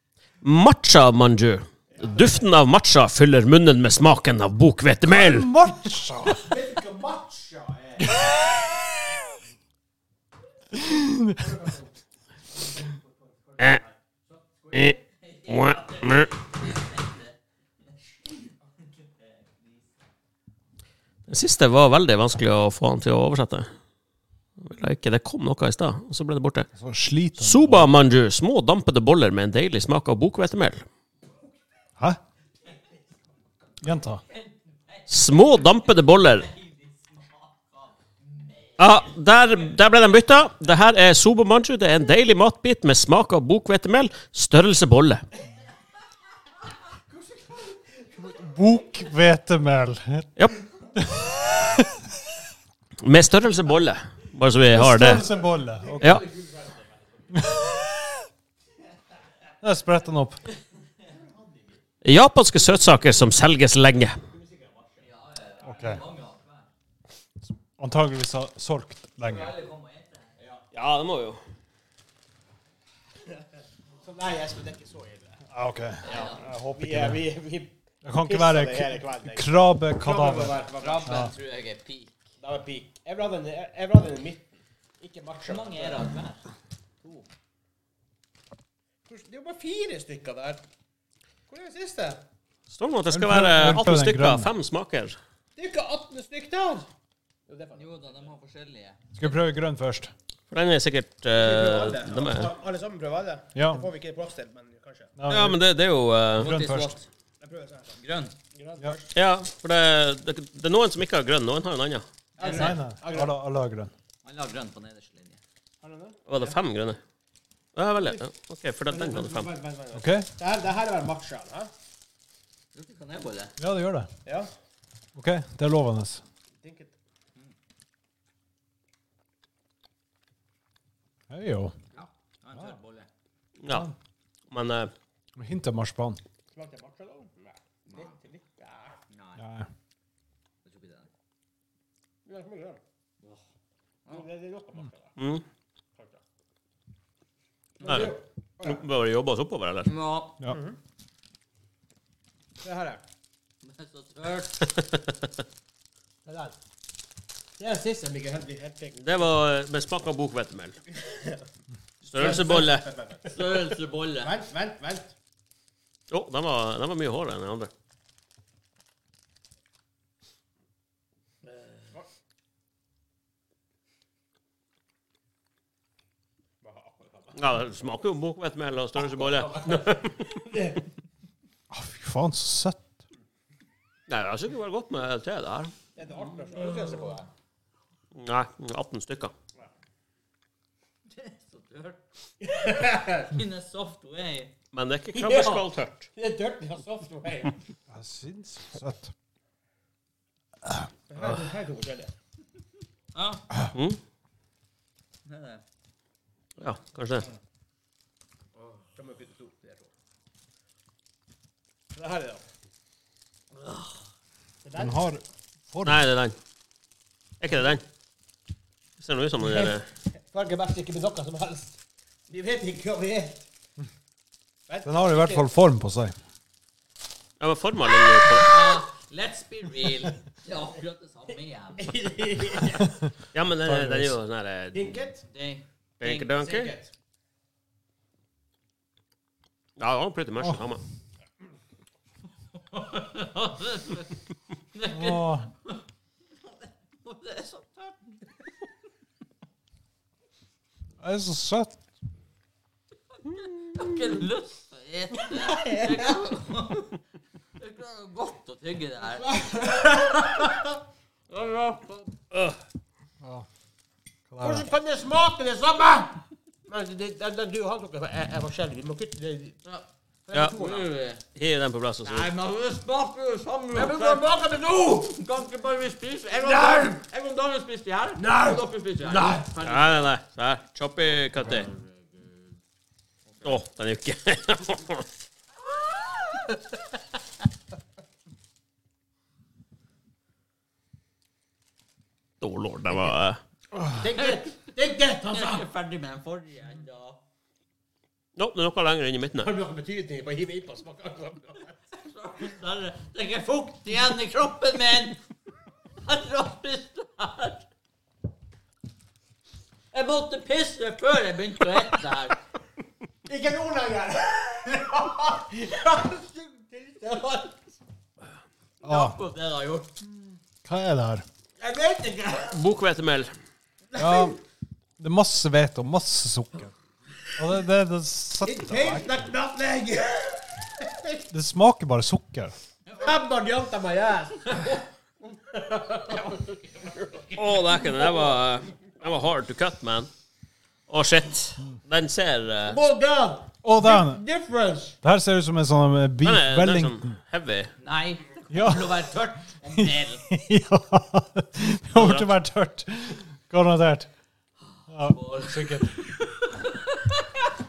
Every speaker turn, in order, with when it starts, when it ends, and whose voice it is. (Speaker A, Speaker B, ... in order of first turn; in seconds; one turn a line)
Speaker A: 0.4-5.5
Speaker B: 5.1-6.6
Speaker C: 6.4-8.2
Speaker B: 10.7-11.5
Speaker C: 11.4-11.8
Speaker C: 12.8-13.9
Speaker A: 14.7-16.4
Speaker D: 15.7-16.0
Speaker A: 21.3-23.7
Speaker A: 24.6-26.7
Speaker B: 26.8-27.9
Speaker A: 27.4-30.8
Speaker B: 33.8-34.2
Speaker A: 35.1-36.5
Speaker D: 36.5-37.5
Speaker A: 38.8-45.2
Speaker B: 48.0-50.3
Speaker B: 50.9-52.0
Speaker A: 53.0-55.3
Speaker B: 54.7-56.2
Speaker C: 55.9-56.8
Speaker A: 56.0-56.3
Speaker B: 57.3-58.1
Speaker B: 59.6-60.4
Speaker A: 62.0-64.2
Speaker C: 64.3-64.9
Speaker D: 65.0-66.6
Speaker B: 65.6-66.0
Speaker B: 67.5-69.5
Speaker D: 69.2-70.3
Speaker A: 70.7-71.4
Speaker C: 74.0-75.4
Speaker B: 75.5-77.2
Speaker C: 76.0-81.3
Speaker B: 78.0-81.3
Speaker D: 80.8-82.1
Speaker C: 82.4-86.1
Speaker D: 85.4-86.5
Speaker C: 89.1-90.6
Speaker C: 91.5-92.2
Speaker A: 92.7-95.2
Speaker B: 93.1-94.5
Speaker C: 95.5-96.9
Speaker C: 97.5-98.3
Speaker D: 97.7-99.0
Speaker B: 99.2-100.1
Speaker A: 100.5-102.5
Speaker C: 101.3-105.1
Speaker B: 103.5-103.9
Speaker B: 105.2-105.6
Speaker A: 105.3-106.5
Speaker B: 106.4-107.0
Speaker D: 106.4-107.1
Speaker C: 107.4-108.0
Speaker D: 108.0-108.3
Speaker C: 108.5-109.1
Speaker A: 109.1-112.0
Speaker C: 112.4-113.3
Speaker D: 112.4-112.8
Speaker B: 112.4-113.9
Speaker D: 114.2-115.4
Speaker C: 115.8-116.6
Speaker A: 116.3-117.0
Speaker A: 117.8-119.5
Speaker C: 118.9-121.7
Speaker B: 119.9-120.3
Speaker D: 122.7-123.5
Speaker B: 123.6-124.1
Speaker C: 124.2-124.5
Speaker B: 125.2-126.2
Speaker C: 126.6-126.9
Speaker B: 131.3-131.7
Speaker D: 131.9-133.1
Speaker B: 132.5-132.8
Speaker A: 133.6-133.9
Speaker B: 133.7-133.9
Speaker A: 134.5-134.9
Speaker B: 135.3-136.2
Speaker C: 136.5-139.0
Speaker D: 139.1-139.4
Speaker B: 139.4-139.7
Speaker D: 140.6-141.1
Speaker C: 142.2-142.8
Speaker C: 144.1-145.1
Speaker A: 145.2-145.4
Speaker C: 147.8-148.8
Speaker A: 147.8-149.9
Speaker D: 147.8-148.1
Speaker D: 149.8-150.4
Speaker C: 150.5-150.8
Speaker C: 152.6-153.0
Speaker D: 153.6-154.7
Speaker C: 156.2-156.5
Speaker C: 157.6-159.3
Speaker A: 159.0-160.8
Speaker C: 161.0-161.4
Speaker A: 162.1-162.9
Speaker C: 162.1-165.1
Speaker D: 163.2-164.4
Speaker A: 166.1-167.7
Speaker C: 176.6-177.3
Speaker A: 177.3-180.4
Speaker C: 180.4-180.8
Speaker B: 181.7-183.0
Speaker A: 184.1-185.7
Speaker C: 185.9-187.3
Speaker A: 188.1-189.3
Speaker D: 191.2-192.0
Speaker C: 192.4-193.3
Speaker D: 192.6-194.5
Speaker A: 194.7-196.1
Speaker C: 195.1-197.6
Speaker B: 197.9-199.1
Speaker C: 201.1-202.1
Speaker D: 203.1-203.4
Speaker A: 203.7-204.0
Speaker D: 205.3-205.6
Speaker A: 206.6-207.3
Speaker C: 208.9-209.9
Speaker C: 211.9-212.4
Speaker C: 214.6-215.1
Speaker B: 214.7-216.1
Speaker A: 215.8-216.3
Speaker A: 217.4-217.8
Speaker A: 219.0-219.9
Speaker C: 219.4-221.8
Speaker C: 222.3-223.4
Speaker C: 224.7-225.4
Speaker B: 224.8-226.2
Speaker A: 227.4-228.8
Speaker D: 228.2-232.1
Speaker C: 231.8-232.9
Speaker B: 232.8-233.1
Speaker A: 233.3-235.0
Speaker B: 233.6-234.2
Speaker C: 234.7-235.2
Speaker D: 235.3-236.9
Speaker A: 236.0-236.7
Speaker A: 239.8-240.8
Speaker D: 242.7-244.1
Speaker D: 244.7-245.7
Speaker B: 244.9-245.5
Speaker D: 246.4-248.0
Speaker B: 251.0-251.8
Speaker D: 253.7-257.0
Speaker C: 255.5-256.0
Speaker D: 257.6-259.3
Speaker C: 259.2-260.7
Speaker D: 261.3-262.1
Speaker A: 262.3-262.6
Speaker B: 263.2-263.5
Speaker B: 264.3-264.7
Speaker C: 264.4-269.6
Speaker C: 270.3-270.9
Speaker D: 270.5-271.2
Speaker A: 271.3-272.3
Speaker D: 272.0-280.0
Speaker C: 273.7-275.2
Speaker C: 276.5-276.9
Speaker C: 278.2-279.6
Speaker A: 279.6-281.7
Speaker A: 283.4-285.1
Speaker D: 285.9-286.4
Speaker A: 292.4-293.4
Speaker C: 293.9-295.6
Speaker D: 294.0-294.4
Speaker D: 295.2-297.2
Speaker A: 298.4-299.5
Speaker C: 299.4-301.7
Speaker D: 302.0-305.2
Speaker D: 306.0-307.6
Speaker D: 309.9-312.4
Speaker C: 313.2-317.6
Speaker D: 318.8-320.0
Speaker B: 318.8-319.2
Speaker B: 320.6-321.2
Speaker C: 321.6-322.5
Speaker A: 322.5-323.3
Speaker C: 323.9-324.3
Speaker B: 323.9-324.4
Speaker B: 325.0-326.7
Speaker B: 327.3-329.3
Speaker C: 328.4-331.2
Speaker B: 331.3-332.5
Speaker C: 332.9-337.9
Speaker A: 337.3-340.1
Speaker A: 340.9-342.8
Speaker C: 342.6-344.9
Speaker B: 343.6-344.2
Speaker B: 345.0-347.2
Speaker A: 346.2-347.7
Speaker D: 347.8-350.2
Speaker B: 348.5-349.0
Speaker B: 349.6-354.1
Speaker A: 351.9-352.3
Speaker B: 354.9-356.0
Speaker D: 355.0-356.4